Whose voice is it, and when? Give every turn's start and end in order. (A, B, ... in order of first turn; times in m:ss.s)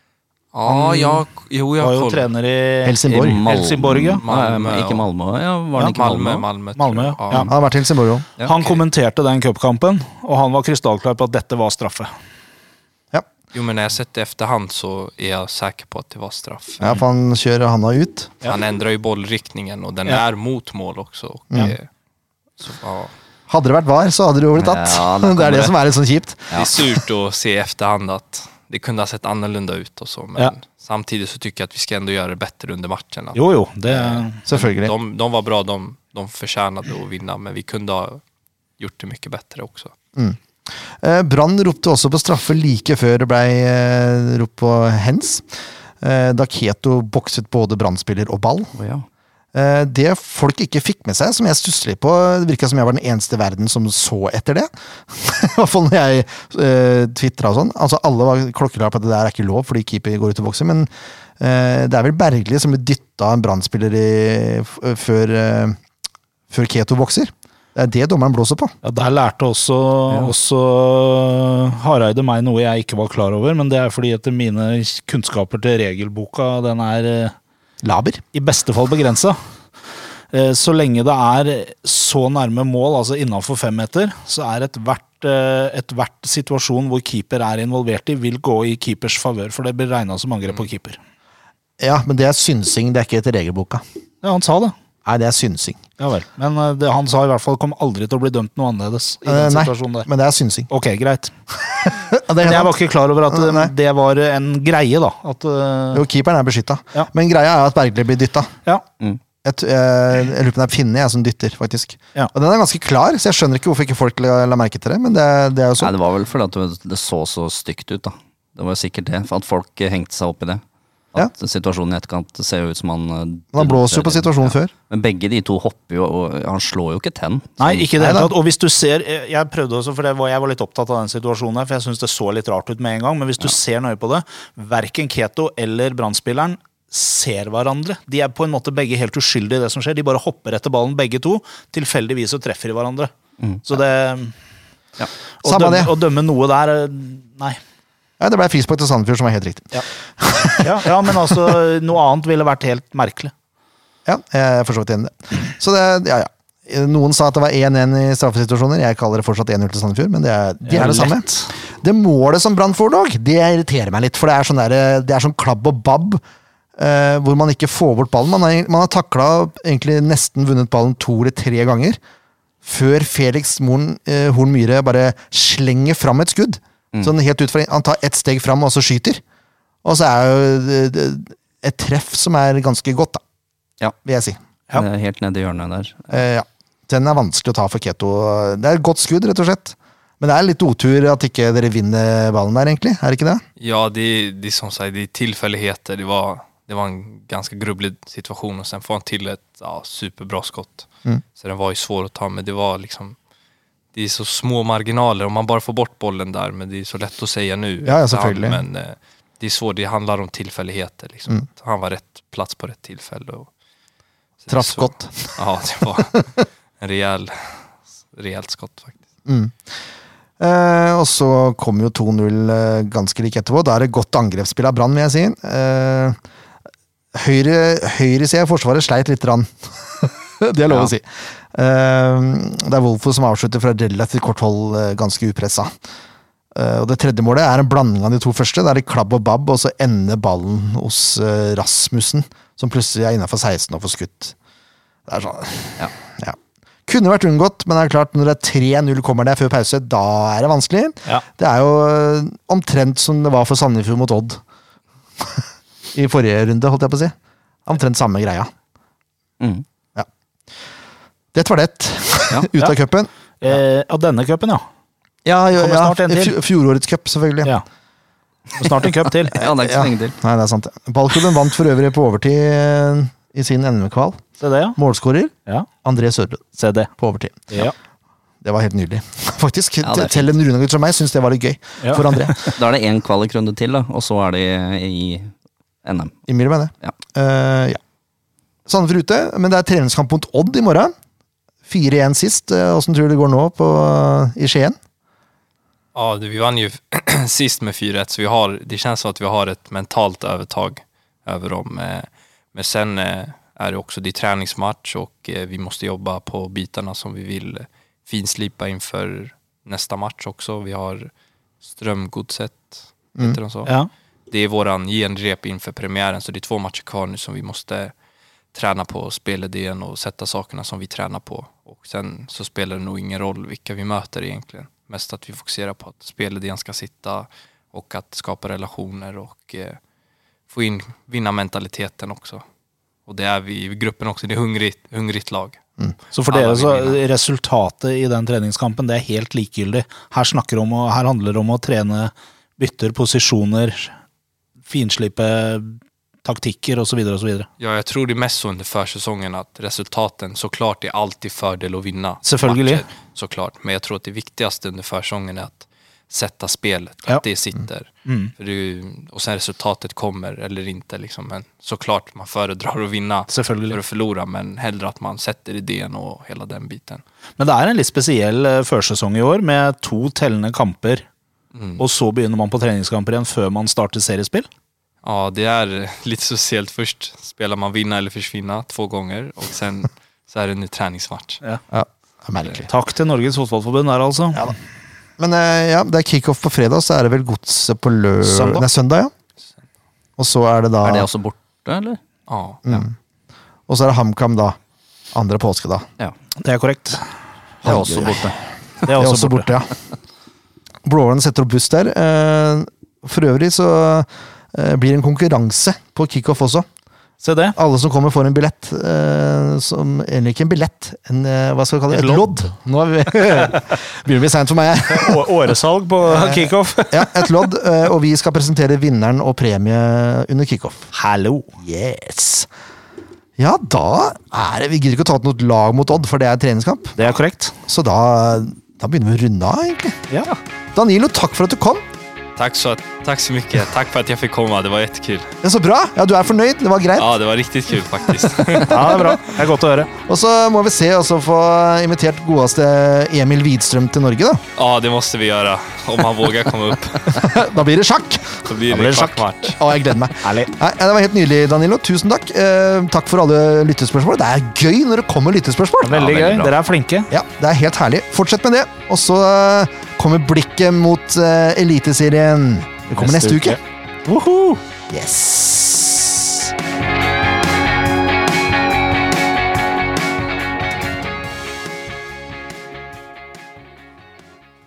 0:00.5-0:02.3 A
0:00.7-0:01.2 B
0:01.8-0:04.2 B
0:02.8-0:03.4 C
0:03.1-0:06.5 D
0:04.2-0:05.1 A
0:05.8-0:07.5 A
0:06.8-0:07.5 B
0:07.5-0:08.3 C
0:08.4-0:12.1 B
0:08.5-0:08.8 A
0:13.5-0:17.0 A
0:16.8-0:18.4 C
0:18.4-0:21.9 A
0:22.6-0:23.1 A
0:23.5-0:26.8 C
0:24.6-0:25.8 D
0:26.5-0:38.2 A
0:33.4-0:34.4 B
0:34.5-0:34.9 C
0:38.8-0:39.9 A
0:40.9-0:45.4 C
0:46.0-0:48.8 C
0:48.8-0:49.1 D
0:49.5-1:05.8 C
1:06.5-1:08.7 C
1:08.8-1:17.4 B
1:17.8-1:18.2 C
1:18.3-1:19.4 B
1:20.3-1:31.0 B
1:31.8-1:33.8 C
1:34.2-1:34.7 B
1:35.1-1:35.8 C
1:36.0-1:40.1 B
1:39.3-1:40.7 C
1:40.7-1:41.3 B
1:41.8-1:42.8 C
1:42.4-1:46.0 B
1:43.3-1:43.7 C
1:45.9-1:48.5 C
1:49.4-1:55.9 C
1:55.8-2:00.6 D
2:01.2-2:07.9 D
2:03.5-2:04.7 C
2:07.6-2:23.1 B
2:08.0-2:08.3 C
2:23.6-2:24.3 B
2:25.4-2:27.6 B
2:25.4-2:25.9 C
2:28.2-2:31.5 C
2:30.6-2:33.3 B
2:34.1-2:46.2 C
2:40.7-2:41.5 B
2:46.8-2:52.0 C
2:52.6-2:59.2 C
2:59.8-3:03.2 C
3:04.0-3:04.4 C
3:04.7-3:06.2 D
3:06.1-3:13.4 C
3:13.6-3:23.2 A
3:23.9-3:33.5 A
3:27.8-3:28.6 C
3:34.4-3:36.3 A
3:34.5-3:35.4 C
3:36.8-3:39.0 A
3:39.3-3:39.6 C
3:40.4-3:46.2 C
3:47.1-3:55.8 C
3:56.5-4:04.4 C
4:05.1-4:14.4 C
4:15.9-4:17.1 C
4:17.7-4:18.5 C
4:19.4-4:19.6 D
4:21.3-4:23.1 C
4:23.4-4:24.6 B
4:25.2-4:27.5 C
4:25.6-4:26.4 B
4:28.5-4:29.5 B
4:29.3-4:30.2 D
4:29.4-4:37.6 C
4:34.4-4:34.8 B
4:36.6-4:36.9 B
4:38.4-4:42.6 C
4:39.8-4:40.3 D
4:41.8-4:42.2 B
4:42.4-4:45.3 D
4:45.8-4:46.2 D
4:46.3-4:47.8 C
4:48.7-4:50.9 C
4:51.7-4:54.8 C
4:56.0-5:11.1 A
5:11.6-5:13.8 A
5:14.3-5:17.9 A
5:18.5-5:29.8 A
5:30.5-5:32.4 A
5:33.1-5:35.6 A
5:36.1-5:43.9 B
5:36.3-5:37.0 A
5:44.7-5:47.5 B
5:47.6-6:07.0 A
5:52.2-5:52.9 B
5:58.1-5:58.3 B
6:03.3-6:03.8 B
6:07.4-6:11.0 B
6:11.5-6:11.8 A
6:11.8-6:14.5 B
6:15.0-6:21.4 A
6:21.7-6:22.7 C
6:22.7-6:24.5 B
6:25.2-6:29.1 C
6:28.2-6:28.6 B
6:30.2-6:31.1 C
6:30.8-6:32.0 D
6:32.3-6:32.6 A
6:32.6-6:32.9 C
6:33.7-6:34.6 C
6:35.1-6:35.9 C
6:36.4-6:37.1 B
6:37.6-6:38.3 C
6:37.6-6:38.4 D
6:38.9-6:39.5 B
6:38.9-6:39.7 C
6:40.8-6:46.7 C
6:47.2-6:47.6 B
6:47.6-6:55.3 C
6:51.9-6:52.3 B
6:54.9-6:57.3 B
6:56.1-7:00.9 C
7:00.9-7:02.5 B
7:03.4-7:07.0 C
7:07.0-7:07.6 B
7:07.7-7:10.0 C
7:10.1-7:10.4 B
7:10.8-7:11.8 C
7:12.4-7:15.3 A
7:15.4-7:17.2 C
7:17.0-7:19.2 A
7:18.7-7:19.9 B
7:20.1-7:24.4 C
7:24.6-7:27.3 A
7:27.1-7:28.4 C
7:28.5-7:29.6 A
7:28.7-7:29.5 B
7:29.6-7:36.0 C
7:30.2-7:30.5 B
7:35.8-7:37.1 B
7:35.9-7:36.6 D
7:37.1-7:43.6 C
7:43.0-7:44.6 B
7:44.9-7:46.2 C